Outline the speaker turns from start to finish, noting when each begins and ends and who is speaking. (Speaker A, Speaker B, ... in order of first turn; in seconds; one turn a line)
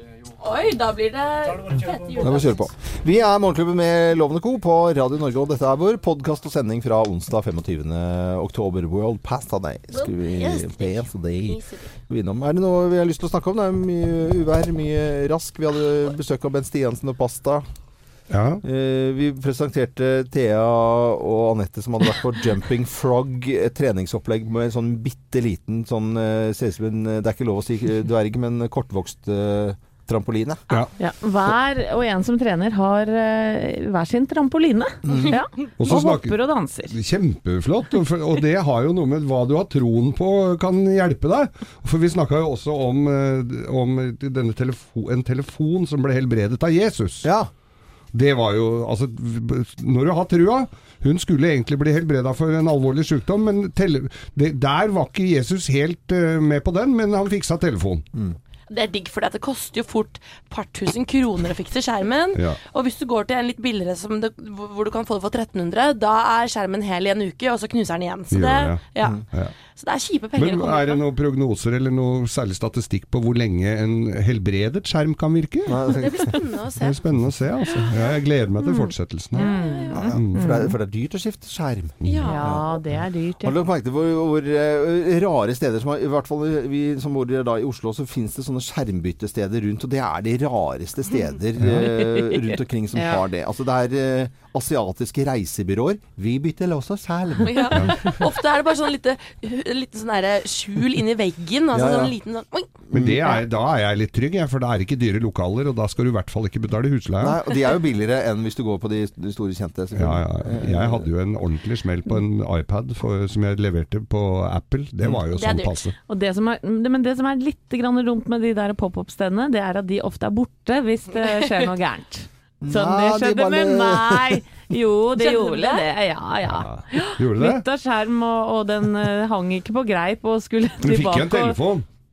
Speaker A: 0.4-2.7
Speaker B: 2.2-17.6
Speaker A: 9.9-11.8
Speaker C: 18.3-18.6
Speaker B: 18.6-30.6
Speaker D: 31.0-36.9
Speaker B: 35.0-35.3
Speaker A: 35.1-35.5
Speaker C: 35.8-47.3
Speaker B: 47.2-47.5
Speaker C: 48.1-58.0
Speaker A: 58.7-69.2
Speaker C: 62.3-62.6
Speaker C: 68.3-69.6
Speaker A: 69.7-71.0
Speaker C: 70.4-75.8
Speaker B: 75.7-76.4
Speaker A: 75.9-77.0
Speaker C: 76.8-80.4
Speaker A: 77.7-78.2
Speaker D: 78.6-80.8
Speaker A: 79.3-80.2
Speaker B: 79.9-82.8
Speaker C: 82.0-82.3
Speaker A: 82.0-82.6
Speaker D: 82.3-83.6
Speaker B: 83.4-98.1
Speaker C: 91.6-91.9
Speaker A: 97.4-102.8
Speaker B: 101.7-102.1
Speaker B: 102.9-103.4
Speaker C: 102.9-107.4
Speaker B: 107.2-111.1
Speaker C: 110.0-116.0
Speaker A: 115.3-115.9
Speaker D: 116.1-131.6
Speaker B: 122.6-124.4
Speaker A: 125.2-125.9
Speaker C: 126.5-127.6
Speaker C: 130.8-131.9